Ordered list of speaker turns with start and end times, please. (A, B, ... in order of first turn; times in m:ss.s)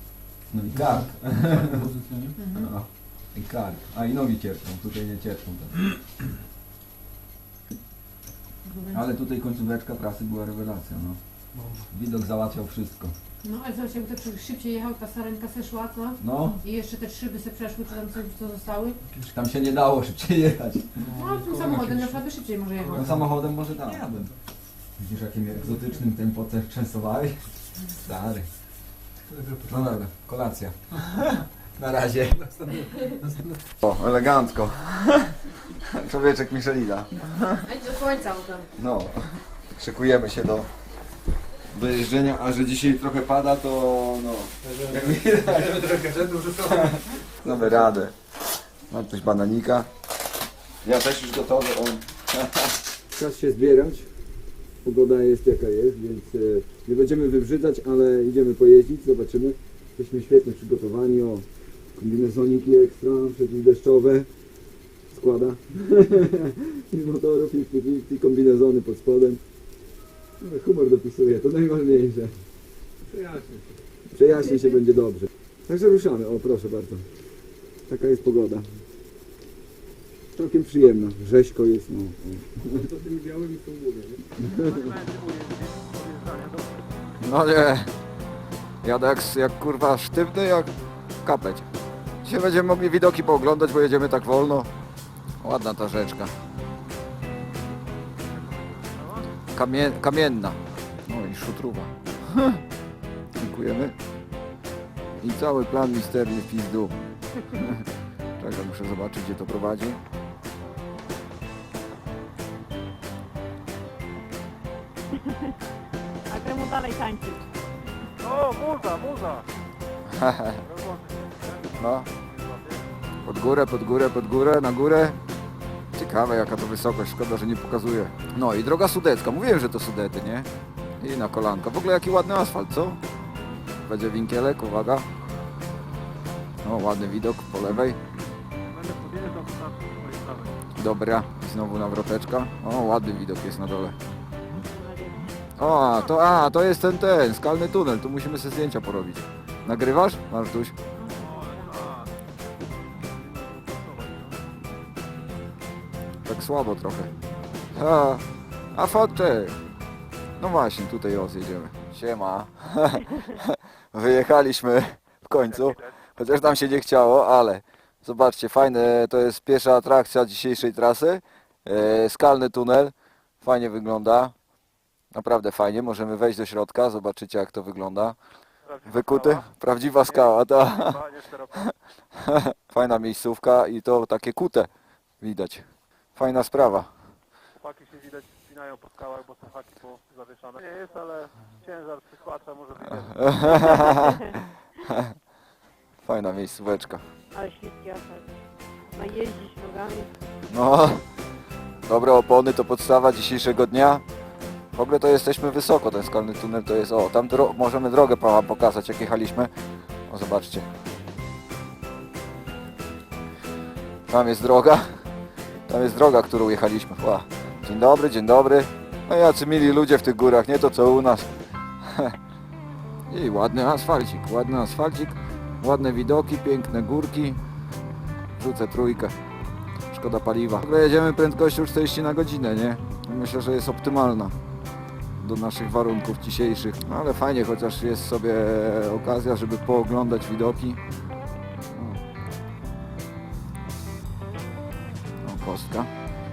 0:00.5-0:01.9 A
0:01.6-0:02.2 B
0:02.4-0:02.7 C
0:02.5-0:05.8 A
0:08.6-0:09.0 C
0:08.9-0:11.2 A
0:11.9-0:13.1 A
0:13.4-0:19.0 C
0:16.2-0:16.6 A
0:19.3-0:21.0 A
0:21.0-0:23.1 C
0:21.1-0:22.1 B
0:22.9-0:24.3 A
0:25.0-0:28.5 A
0:29.7-0:32.4 A
0:33.8-0:37.6 A
0:37.6-0:38.7 C
0:38.8-0:40.7 A
0:41.7-0:46.0 A
0:44.8-0:46.9 B
0:46.6-0:48.1 A
0:48.9-0:49.9 A
0:50.8-0:54.1 A
0:54.8-1:04.3 A
1:05.1-1:09.4 A
1:10.4-1:12.3 A
1:13.1-1:13.6 B
1:14.1-1:17.0 A
1:17.9-1:18.7 A
1:20.3-1:22.7 A
1:22.8-1:24.2 B
1:24.4-1:24.9 A
1:24.4-1:26.9 D
1:27.2-1:27.9 A
1:28.8-1:30.7 A
1:31.2-1:31.6 A
1:32.2-1:34.7 A
1:35.4-1:36.3 A
1:38.3-1:39.3 D
1:39.5-1:42.6 A
1:43.4-1:43.9 A
1:45.2-1:47.0 A
1:47.5-1:47.8 A
1:48.4-1:50.0 A
1:55.2-1:55.5 E
1:56.3-1:57.4 E
1:58.2-1:59.4 D
2:00.1-2:00.6 A
2:00.6-2:02.9 D
2:01.8-2:02.1 A
2:03.2-2:05.2 A
2:05.9-2:10.5 A
2:11.0-2:13.0 A
2:13.8-2:15.0 A
2:16.6-2:18.0 A
2:18.7-2:20.6 D
2:20.8-2:24.0 A
2:24.6-2:26.1 E
2:25.6-2:30.7 A
2:31.0-2:31.9 E
2:31.2-2:32.1 D
2:33.0-2:34.4 D
2:36.2-2:37.1 A
2:37.7-2:39.6 A
2:40.4-2:54.3 A
2:45.5-2:45.9 D
2:55.1-2:58.2 A
2:58.6-2:59.5 D
2:58.8-3:01.0 A
3:00.0-3:01.7 D
3:02.2-3:04.7 A
3:05.2-3:05.6 A
3:06.2-3:06.9 A
3:07.6-3:13.6 D
3:13.1-3:15.1 A
3:13.5-3:14.3 E
3:16.0-3:17.0 A
3:17.3-3:18.3 E
3:18.9-3:20.1 E
3:20.5-3:21.0 A
3:21.8-3:24.0 A
3:24.7-3:29.5 A
3:30.1-3:30.7 A
3:34.1-3:34.9 A
3:35.7-3:41.3 A
3:41.8-3:42.2 A
3:43.1-3:47.4 A
3:48.4-3:49.1 A
3:49.9-3:54.3 A
3:55.2-4:00.8 A
4:01.7-4:02.0 A
4:05.2-4:05.9 A